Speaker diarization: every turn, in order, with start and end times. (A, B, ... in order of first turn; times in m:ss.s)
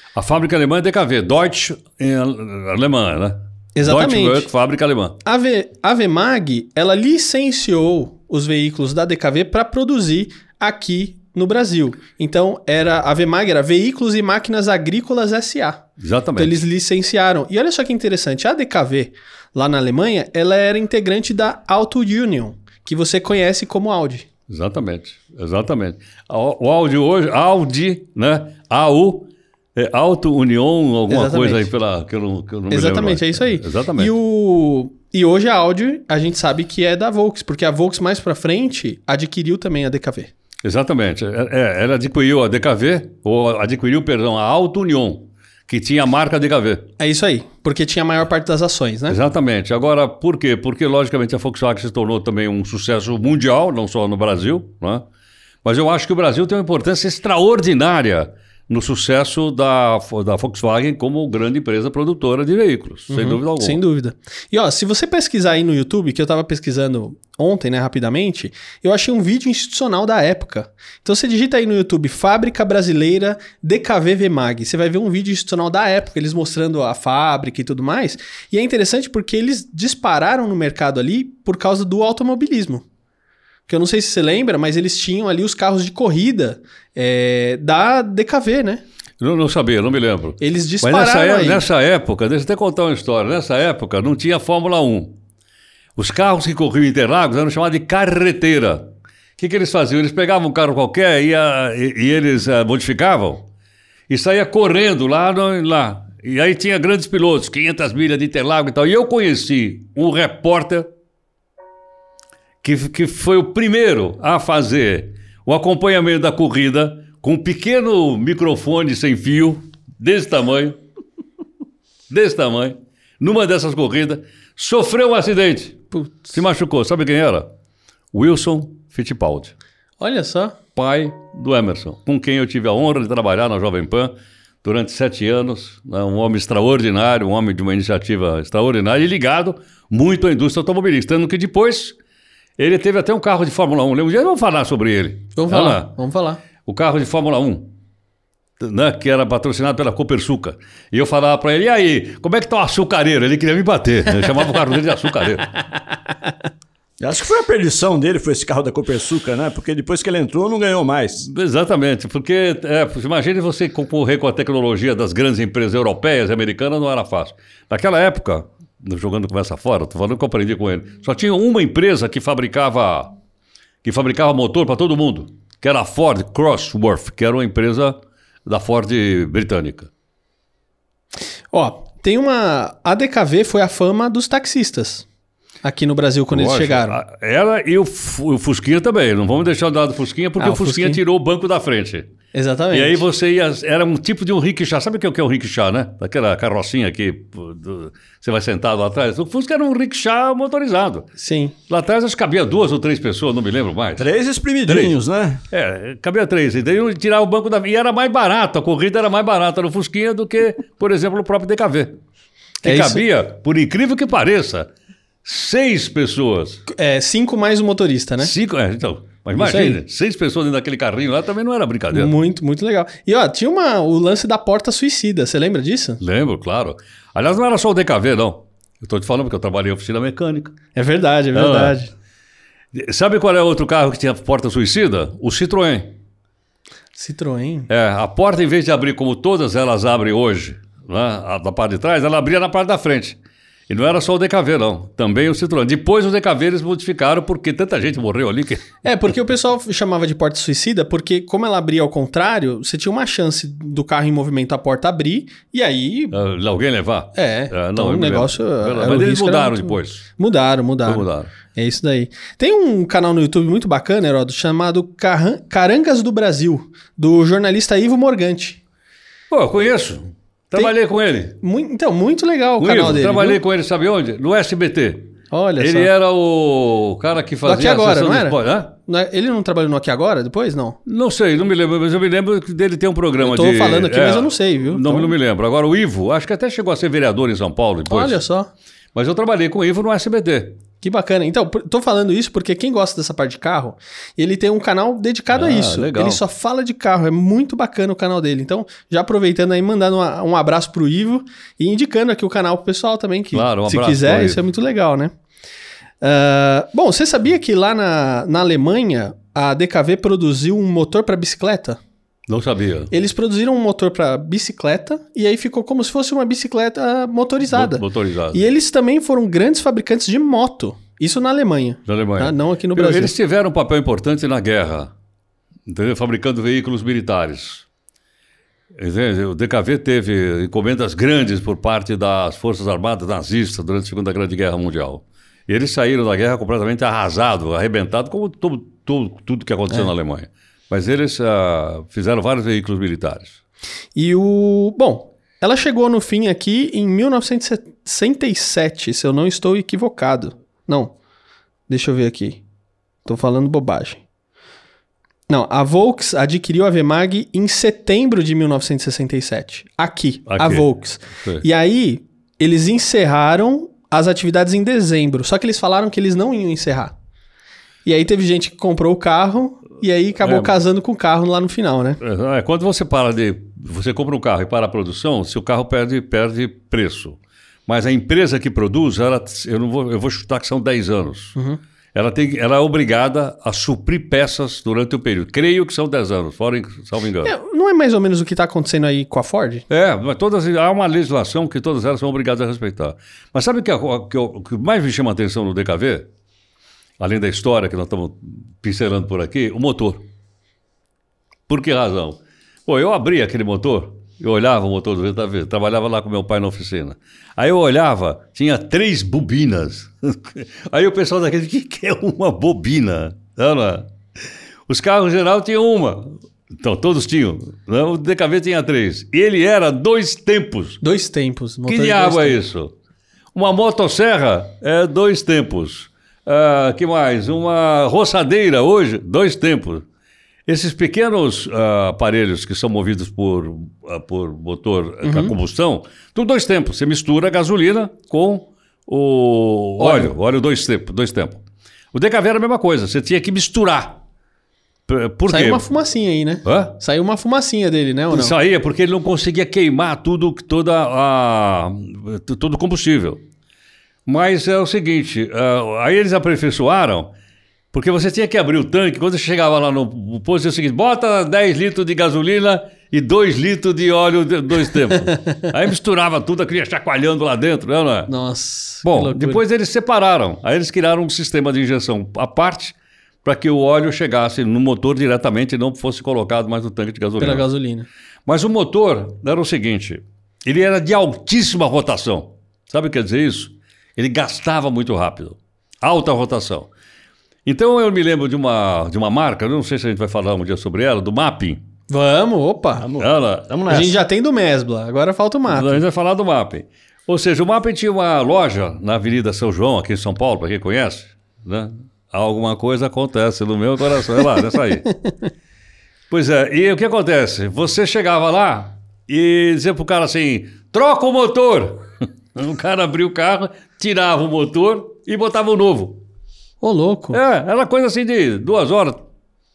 0:00.1-0:05.2 A
0:03.8-0:04.5 B
0:05.2-0:15.8 B
0:16.0-0:16.6 A
0:16.4-0:24.2 B
0:24.5-0:34.1 A
0:31.1-0:31.7 B
0:32.7-0:40.3 B
0:40.6-0:46.8 A
0:47.0-0:49.2 B
0:49.1-0:55.0 A
0:55.6-1:03.8 A
1:03.1-1:22.8 B
1:23.7-1:28.8 B
1:29.2-1:35.1 A
1:30.4-1:31.6 B
1:36.0-1:38.8 A
1:39.4-1:43.4 A
1:44.1-1:50.9 A
1:52.6-2:00.8 A
2:02.1-2:07.5 A
2:05.9-2:06.3 B
2:08.1-2:09.5 A
2:10.0-2:10.6 B
2:10.8-2:14.1 A
2:14.6-2:21.9 A
2:22.6-2:25.9 A
2:25.4-2:26.4 B
2:26.6-2:27.7 A
2:28.6-2:35.6 A
2:37.0-2:41.3 C
2:41.2-2:53.1 A
2:53.8-2:59.9 A
3:01.5-3:05.1 B
3:05.6-3:07.0 B
3:06.3-3:12.1 A
3:10.4-3:11.0 B
3:12.3-3:13.0 B
3:12.7-3:21.1 A
3:21.2-3:21.5 B
3:21.7-3:24.1 A
3:24.0-3:25.4 C
3:24.7-3:24.9 A
3:25.5-3:32.0 A
3:32.6-3:34.7 A
3:32.6-3:33.0 B
3:35.2-3:36.6 A
3:36.7-3:38.3 B
3:38.2-3:42.1 A
3:39.3-3:39.8 B
3:41.9-3:46.0 B
3:46.0-3:50.6 A
3:50.7-3:51.9 B
3:51.3-3:51.8 A
3:52.7-3:55.9 A
3:57.0-3:57.7 B
3:57.7-4:03.2 A
4:03.7-4:08.8 A
4:08.8-4:16.2 B
4:16.1-4:20.1 A
4:17.1-4:28.6 B
4:20.8-4:21.3 A
4:29.3-4:31.4 A
4:31.4-4:33.4 B
4:32.6-4:38.7 A
4:35.3-4:35.9 B
4:37.4-4:40.8 B
4:40.8-4:48.2 A
4:43.2-4:45.1 B
4:47.9-4:48.5 B
4:48.9-4:50.6 A
4:50.8-5:05.1 B
4:55.3-4:56.2 A
5:03.3-5:04.4 A
5:06.0-5:11.8 B
5:12.3-5:12.9 A
5:12.9-5:23.1 B
5:17.5-5:18.5 A
5:21.8-5:24.9 A
5:25.7-5:27.6 A
5:28.8-5:43.4 A
5:43.9-5:50.9 B
5:51.7-5:52.4 B
5:53.0-5:54.0 B
5:55.3-6:06.9 B
6:00.3-6:00.6 A
6:07.8-6:12.0 B
6:10.2-6:10.5 A
6:12.0-6:21.3 A
6:21.9-6:27.3 A
6:27.2-6:29.6 B
6:29.7-6:36.0 A
6:37.0-6:40.0 A
6:41.5-6:53.9 A
6:54.7-7:00.8 A
7:00.8-7:02.4 B
7:01.7-7:02.7 A
7:03.3-7:09.8 A
7:10.5-7:21.4 A
7:15.0-7:15.3 B
7:19.8-7:20.1 B
7:21.9-7:24.0 A
7:24.9-7:25.6 A
7:25.3-7:28.3 B
7:26.4-7:26.7 A
7:28.1-7:33.2 A
7:34.0-7:37.1 A
7:37.7-7:48.1 A
7:48.1-7:49.4 B
7:48.8-7:57.4 A
7:57.2-7:57.9 B
7:58.2-8:06.7 A
8:07.4-8:11.6 A
8:11.9-8:12.9 B
8:12.8-8:14.0 C
8:13.0-8:13.8 A
8:13.7-8:15.8 B
8:15.5-8:25.0 A
8:26.1-8:31.8 A
8:32.3-8:36.0 A
8:36.6-8:37.2 B
8:37.1-8:39.0 A